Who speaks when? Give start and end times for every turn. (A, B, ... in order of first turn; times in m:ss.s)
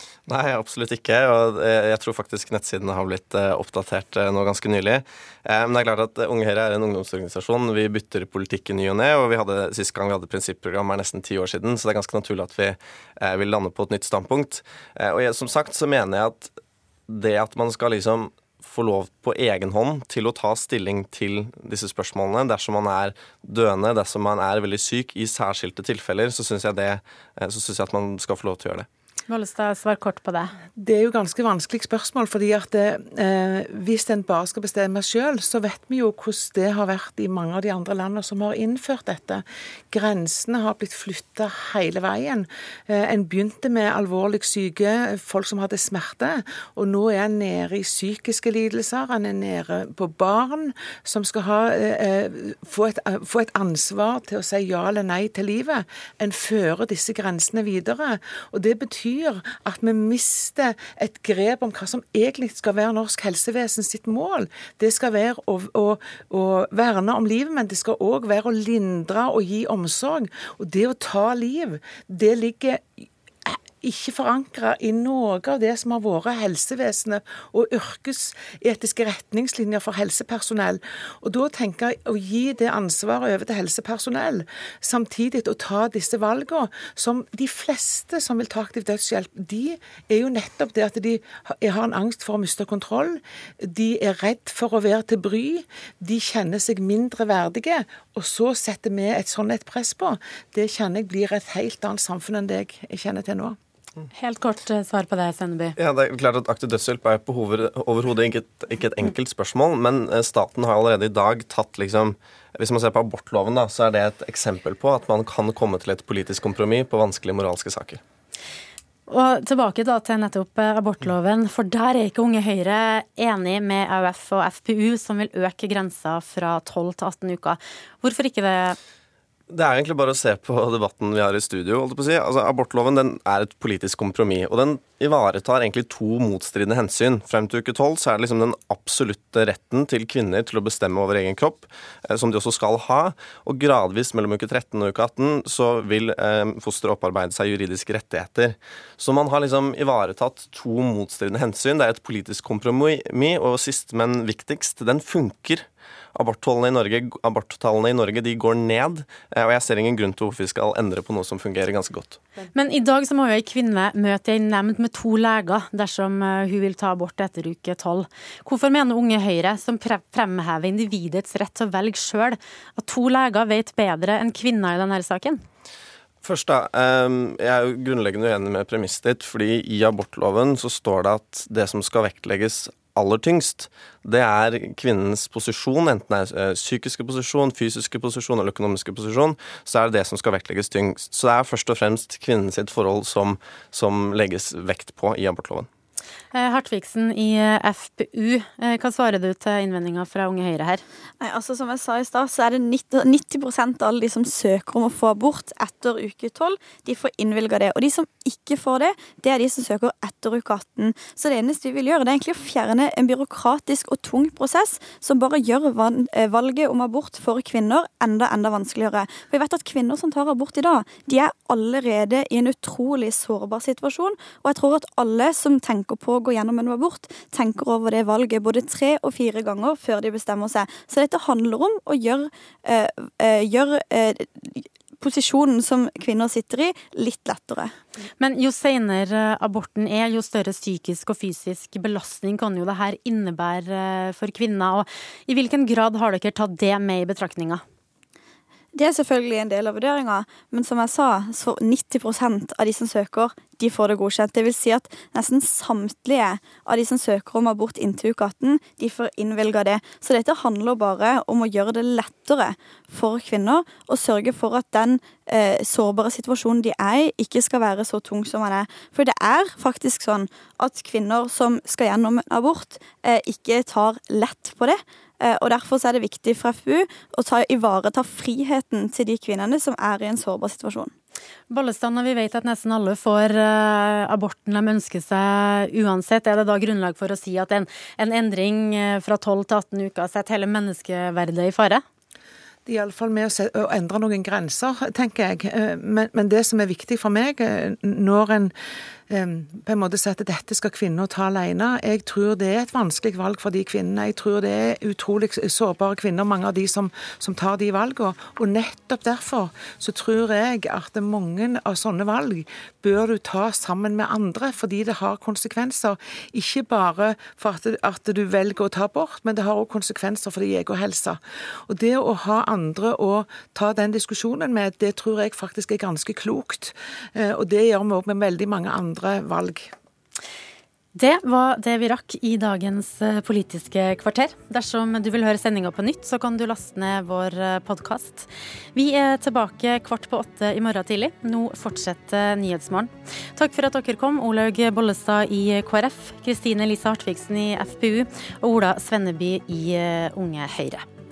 0:00.3-0:16.5 A
0:17.1-0:28.9 A
0:29.3-0:30.5 B
0:30.8-1:43.6 C
1:44.1-1:45.8 B
1:45.8-1:58.0 A
1:59.1-2:08.8 B
2:09.5-2:42.2 A
2:42.5-2:55.4 B
2:56.2-3:15.7 A
3:16.3-3:20.8 B
3:21.2-3:57.7 D
3:58.2-4:07.6 B
4:08.7-4:40.9 D
4:41.5-4:51.8 B
4:52.7-4:58.5 C
4:59.1-5:29.7 C
5:31.0-5:50.8 B